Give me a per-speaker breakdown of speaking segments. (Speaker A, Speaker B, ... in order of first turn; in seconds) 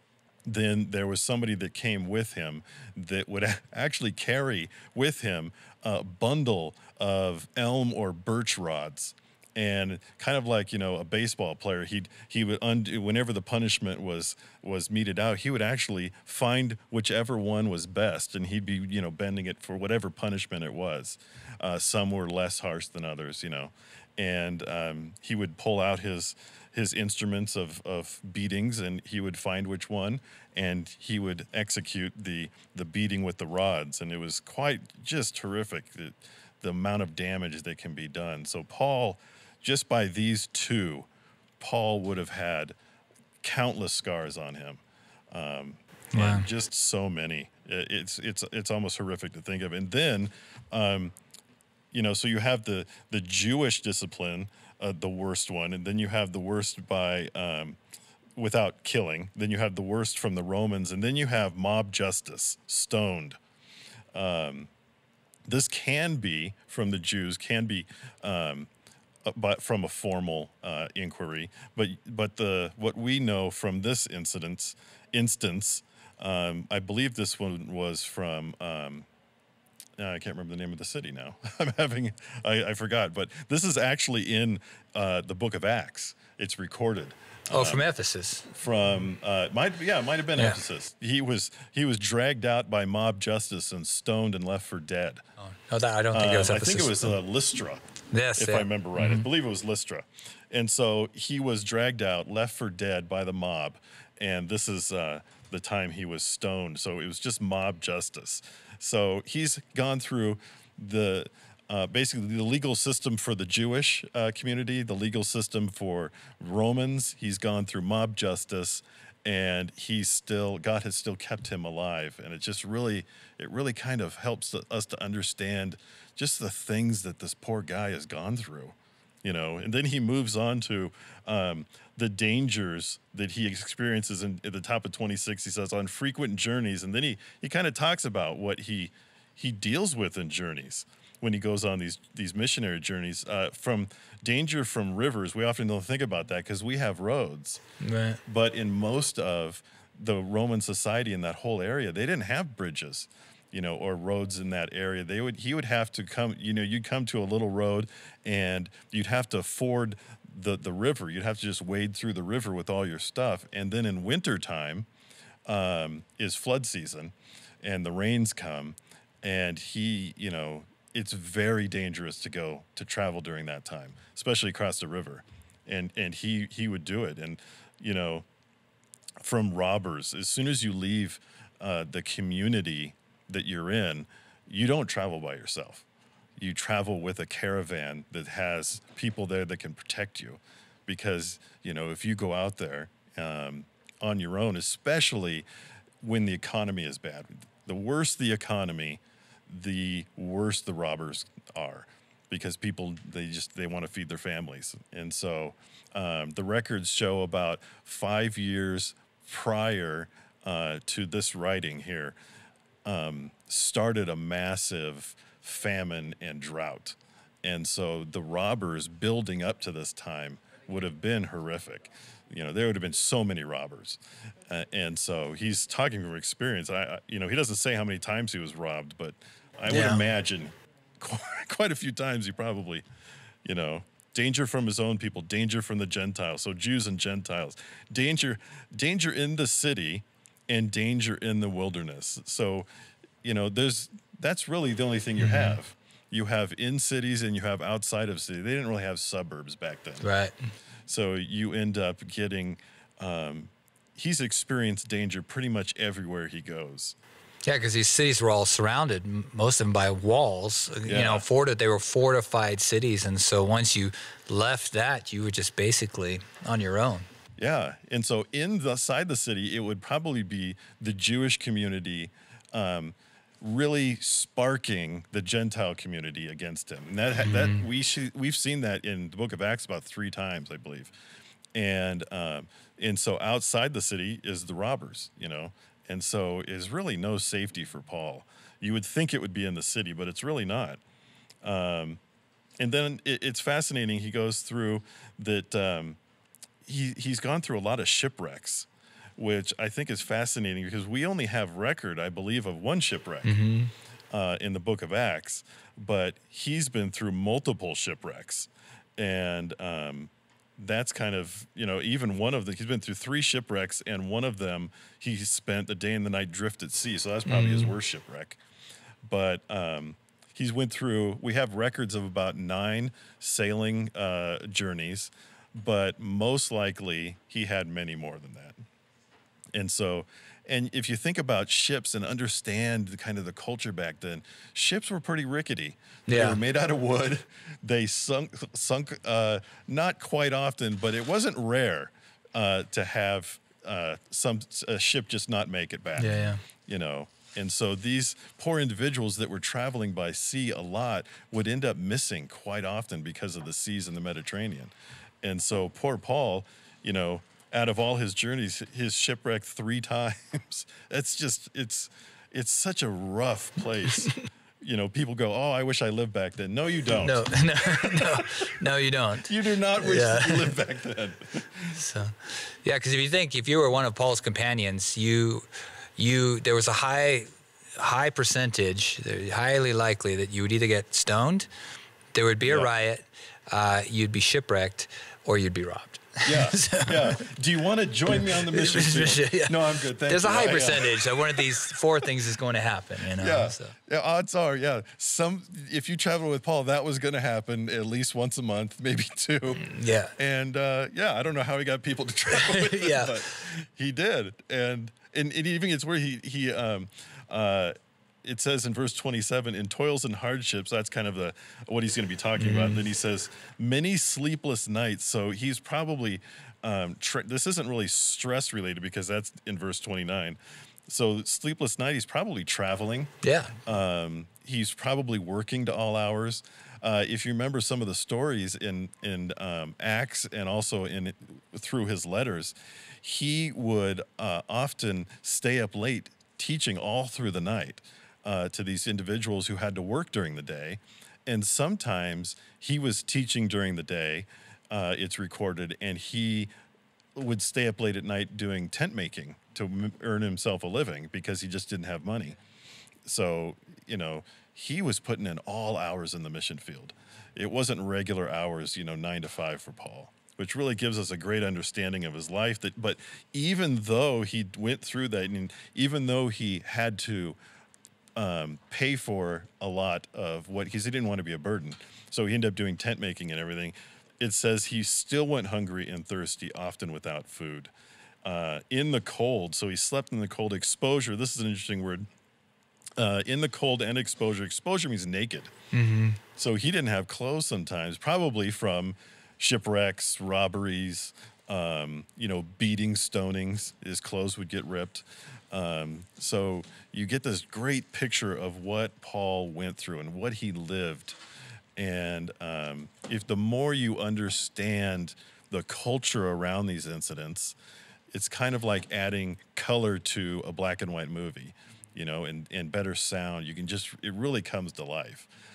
Speaker A: 0.5-41.1, 41.6-42.8, 43.4-51.1, 51.9-57.8, 58.4-63.4, 64.1-64.7, 65.5-68.7, 69.3-79.1, 80.0-87.8, 88.5-95.2, 96.1-97.8, 98.4-147.6, 148.3-164.9, 165.5-178.3, 179.2-185.8, 186.4-195.5, 196.0-212.2, 212.8-232.8, 233.4-242.7, 243.2-250.1, 250.9-257.0, 260.9-261.2, 267.4-280.9, 281.6-290.8, 291.4-292.0, 292.6-296.0, 296.7-303.3, 304.1-318.4, 319.0-328.6, 329.5-368.3, 369.2-371.8, 386.2-391.7, 393.1-423.1, 423.6-446.5, 447.1-452.4, 453.1-467.4, 468.2-477.7, 478.2-482.1, 483.0-485.5, 486.4-501.2, 501.8-507.6, 508.1-515.3
Speaker B: 46.1-46.5, 87.5-88.5, 95.4-97.2, 98.1-99.3, 147.8-148.2, 229.7-230.0, 245.2-245.6, 250.0-250.3, 257.5-267.1, 277.2-277.6, 303.2-303.7, 317.3-317.7, 336.1-336.4, 346.0-346.4, 367.0-370.6, 371.7-381.5, 382.1-387.2, 388.1-393.8, 399.6-400.2, 402.3-403.1, 412.4-412.8, 423.2-423.5, 485.7-486.2